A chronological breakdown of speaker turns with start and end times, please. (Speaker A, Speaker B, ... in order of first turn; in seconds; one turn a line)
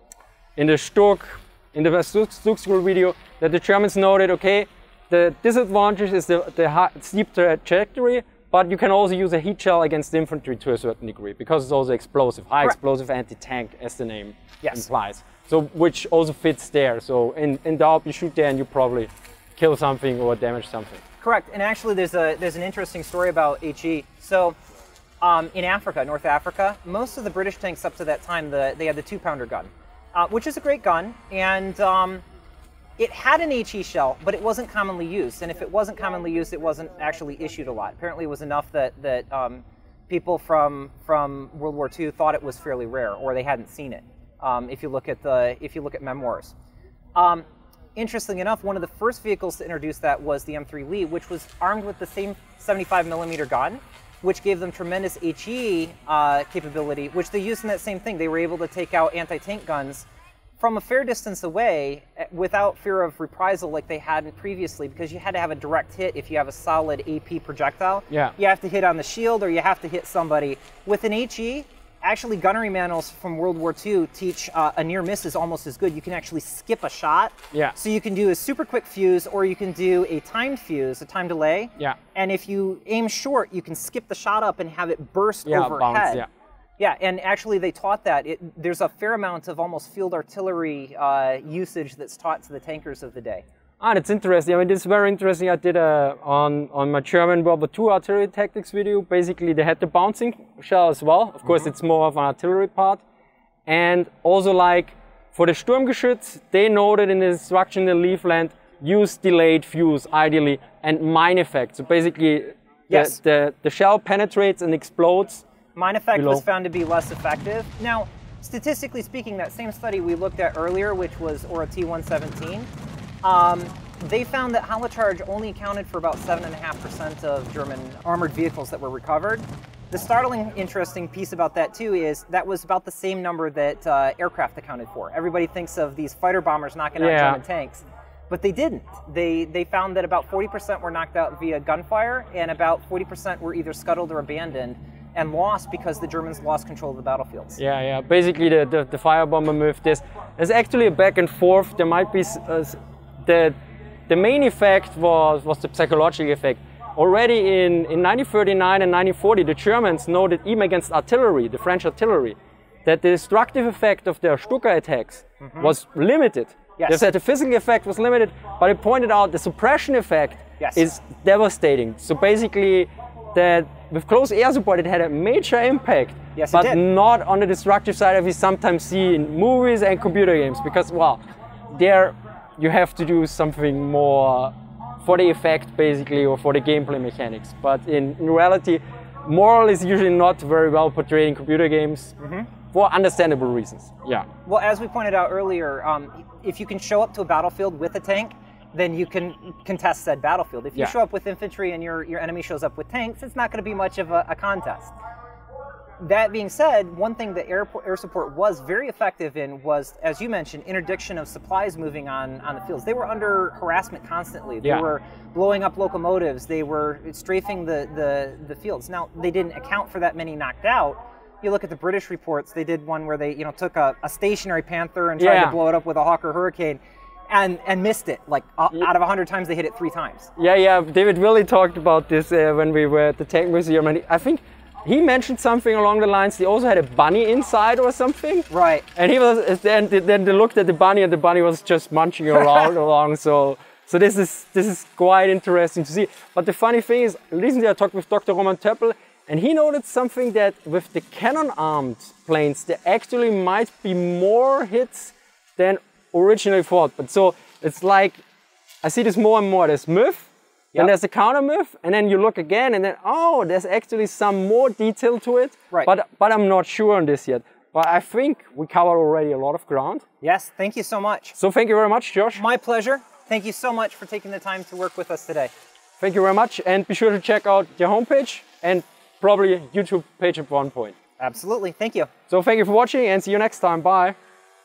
Speaker A: 0.6-21.0
Speaker B: 21.2-24.6
Speaker B: 25.2-32.2
Speaker B: 33.0-46.5
Speaker B: 47.1-60.1
Speaker B: 60.6-86.2
Speaker A: 68.1-68.3
Speaker A: 85.5-86.3
Speaker B: 86.8-93.4
Speaker A: 93.8-103.0
Speaker A: 103.7-115.5
Speaker B: 112.9-113.2
Speaker B: 115.8-122.7
Speaker A: 116.1-116.5
Speaker B: 123.2-147.6
Speaker A: 137.0-137.4
Speaker A: 147.6-153.6
Speaker A: 154.1-192.2
Speaker B: 165.4-165.8
Speaker B: 166.8-167.0
Speaker B: 170.6-170.9
Speaker B: 176.3-176.8
Speaker B: 192.2-192.5
Speaker A: 192.7-194.3
Speaker B: 194.5-204.9
Speaker B: 206.0-230.3
Speaker A: 225.2-225.6
Speaker A: 230.4-258.2
Speaker B: 238.5-238.9
Speaker A: 258.8-270.0
Speaker B: 270.2-271.4
Speaker A: 271.4-272.4
Speaker B: 272.4-275.5
Speaker A: 276.0-280.9
Speaker B: 281.2-282.1
Speaker A: 282.3-284.1